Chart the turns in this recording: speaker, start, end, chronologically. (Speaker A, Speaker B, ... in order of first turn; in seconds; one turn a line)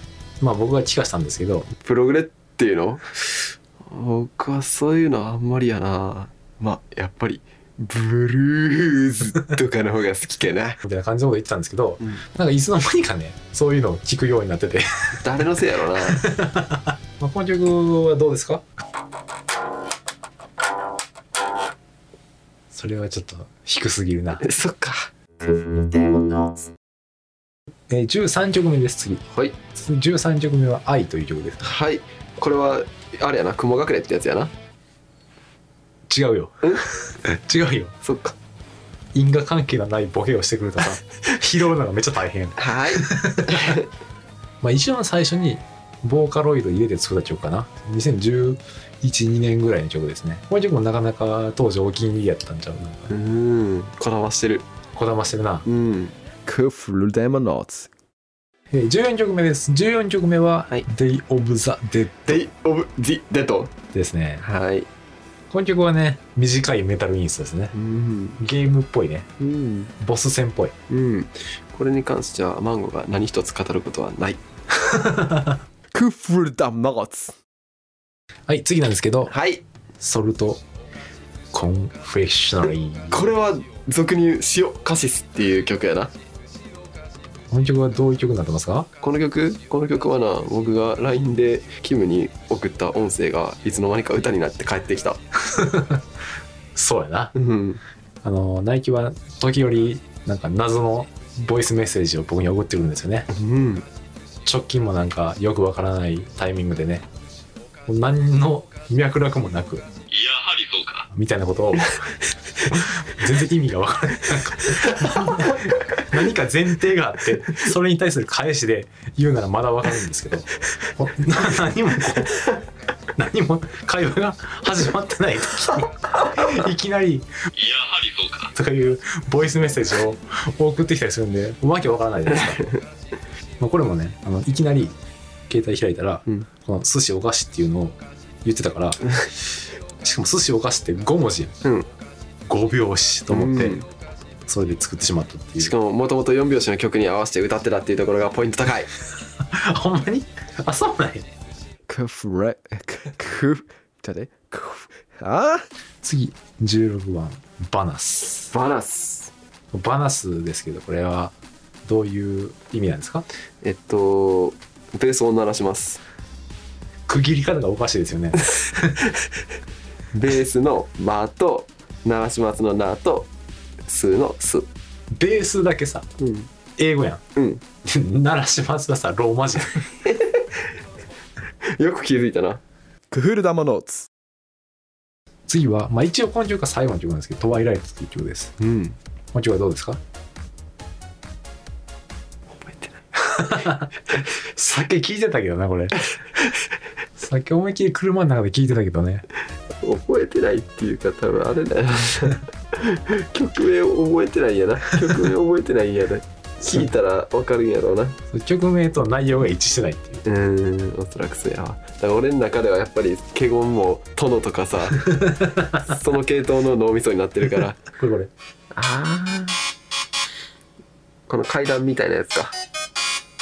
Speaker A: 0.4-1.7
Speaker B: 1.7-10.8
Speaker A: 10.8-15.2
Speaker B: 15.1-16.2
Speaker A: 16.0-18.7
Speaker A: 22.7-24.4
Speaker B: 24.4-26.7
Speaker A: 27.9-31.7
Speaker B: 29.3-29.6
Speaker B: 31.6-34.5
Speaker A: 36.1-38.0
Speaker B: 38.0-38.4
Speaker A: 39.1-43.8
Speaker B: 42.6-43.9
Speaker A: 44.6-53.1
Speaker B: 53.1-54.7
Speaker A: 54.9-55.7
Speaker B: 55.7-56.1
Speaker C: 56.5-57.9
Speaker A: 58.7-62.5
Speaker B: 62.3-63.7
Speaker A: 63.9-64.4
Speaker B: 64.4-64.9
Speaker A: 65.5-67.8
Speaker B: 67.7-68.4
Speaker A: 68.4-69.3
Speaker B: 69.4-69.9
Speaker A: 70.0-70.8
Speaker B: 70.9-74.4
Speaker A: 74.9-75.6
Speaker C: 75.9-77.3
Speaker A: 78.5-79.3
Speaker B: 79.2-79.6
Speaker A: 80.0-80.6
Speaker A: 81.5-83.3
Speaker B: 83.1-86.1
Speaker A: 87.5-88.9
Speaker B: 89.0-95.2
Speaker A: 95.4-96.0
Speaker A: 96.8-97.3
Speaker B: 97.3-97.8
Speaker A: 98.2-103.3
Speaker B: 103.3-103.9
Speaker A: 104.5-107.1
Speaker A: 107.9-109.9
Speaker C: 110.1-111.1
Speaker A: 111.1-112.1
Speaker A: 112.6-122.5
Speaker B: 114.8-115.5
Speaker A: 123.2-127.5
Speaker C: 127.6-128.5
Speaker A: 128.5-132.7
Speaker B: 132.6-132.8
Speaker A: 133.6-135.0
Speaker A: 135.5-141.6
Speaker A: 142.5-143.8
Speaker B: 143.3-143.9
Speaker A: 144.5-145.8
Speaker B: 145.6-148.9
Speaker A: 149.4-151.3
Speaker C: 151.9-155.7
Speaker A: 156.0-158.5
Speaker B: 158.5-159.3
Speaker A: 159.7-163.3
Speaker B: 163.6-166.0
Speaker A: 167.1-169.0
Speaker B: 168.6-169.2
Speaker B: 170.1-173.3
Speaker B: 173.9-174.7
Speaker A: 175.1-176.1
Speaker B: 176.2-176.5
Speaker A: 176.8-177.2
Speaker B: 177.4-177.6
Speaker A: 177.8-179.9
Speaker B: 180.0-180.6
Speaker B: 181.7-182.6
Speaker C: 183.1-184.1
Speaker A: 185.5-188.5
Speaker B: 188.6-189.0
Speaker A: 189.3-190.0
Speaker B: 192.6-193.7
Speaker A: 193.2-196.0
Speaker A: 197.2-199.3
Speaker B: 199.8-208.2
Speaker A: 208.3-210.2
Speaker B: 210.2-217.8
Speaker A: 214.9-215.8
Speaker A: 217.8-218.3
Speaker B: 218.7-219.6
Speaker B: 221.3-222.6